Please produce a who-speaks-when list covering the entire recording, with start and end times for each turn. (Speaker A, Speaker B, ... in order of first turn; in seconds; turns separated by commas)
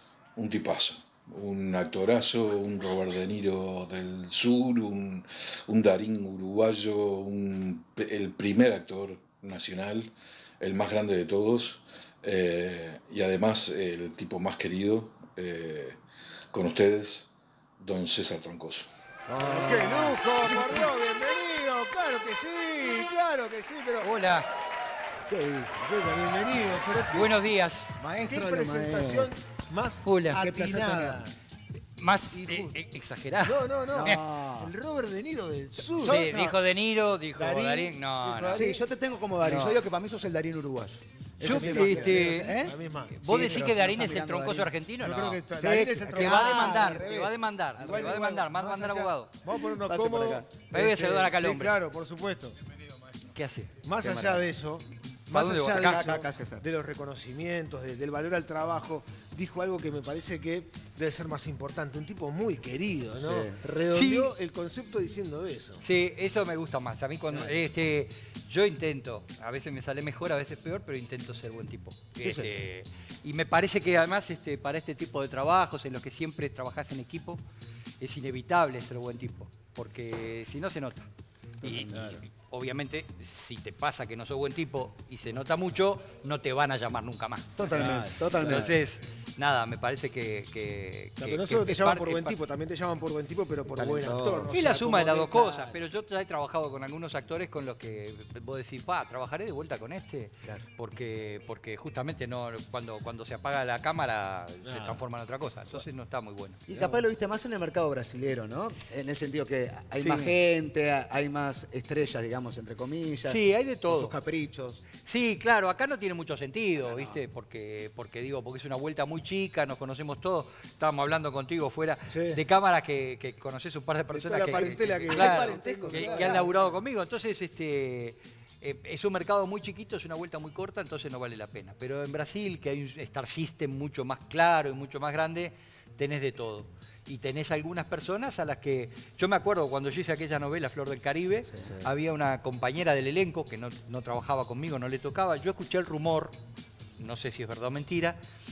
Speaker A: 0.4-16.0, Speaker A: 16.5-18.9, Speaker B: 19.3-20.9, Speaker C: 19.4-24.1, Speaker D: 24.0-24.5, Speaker C: 25.3-27.4, Speaker D: 27.1-28.0, Speaker B: 28.0-29.3, Speaker C: 28.2-31.4, Speaker D: 30.0-30.4, Speaker B: 30.4-31.2, Speaker D: 32.0-34.2, Speaker C: 32.3-32.8, Speaker C: 33.4-36.3, Speaker B: 33.9-34.7, Speaker B: 35.8-36.6, Speaker D: 36.0-38.7, Speaker C: 37.4-38.8, Speaker B: 38.5-44.7, Speaker D: 39.4-39.8, Speaker C: 41.4-43.6, Speaker D: 41.4-42.6, Speaker D: 43.1-49.3, Speaker C: 45.0-47.1, Speaker B: 45.6-48.4, Speaker C: 47.8-52.6, Speaker B: 49.5-51.2, Speaker D: 50.7-51.8, Speaker D: 53.3-53.7, Speaker C: 53.8-65.8, Speaker B: 54.0-54.5, Speaker D: 55.3-56.2, Speaker B: 55.7-56.7, Speaker B: 63.2-63.6, Speaker D: 63.9-64.3, Speaker D: 65.8-77.4, Speaker B: 72.2-72.5, Speaker D: 78.0-81.1, Speaker B: 81.6-82.2, Speaker D: 81.6-92.4, Speaker C: 81.7-82.2, Speaker B: 87.6-88.8, Speaker C: 87.7-88.8, Speaker C: 91.2-95.8, Speaker B: 93.7-94.5, Speaker D: 94.5-106.6, Speaker C: 104.6-105.0, Speaker B: 106.7-114.8, Speaker C: 106.7-107.0, Speaker D: 110.0-110.3, Speaker D: 113.2-114.2, Speaker D: 115.0-146.4, Speaker B: 116.8-117.2, Speaker C: 122.1-122.4, Speaker B: 124.1-126.5, Speaker C: 124.3-126.8, Speaker C: 141.7-141.9, Speaker D: 147.0-148.2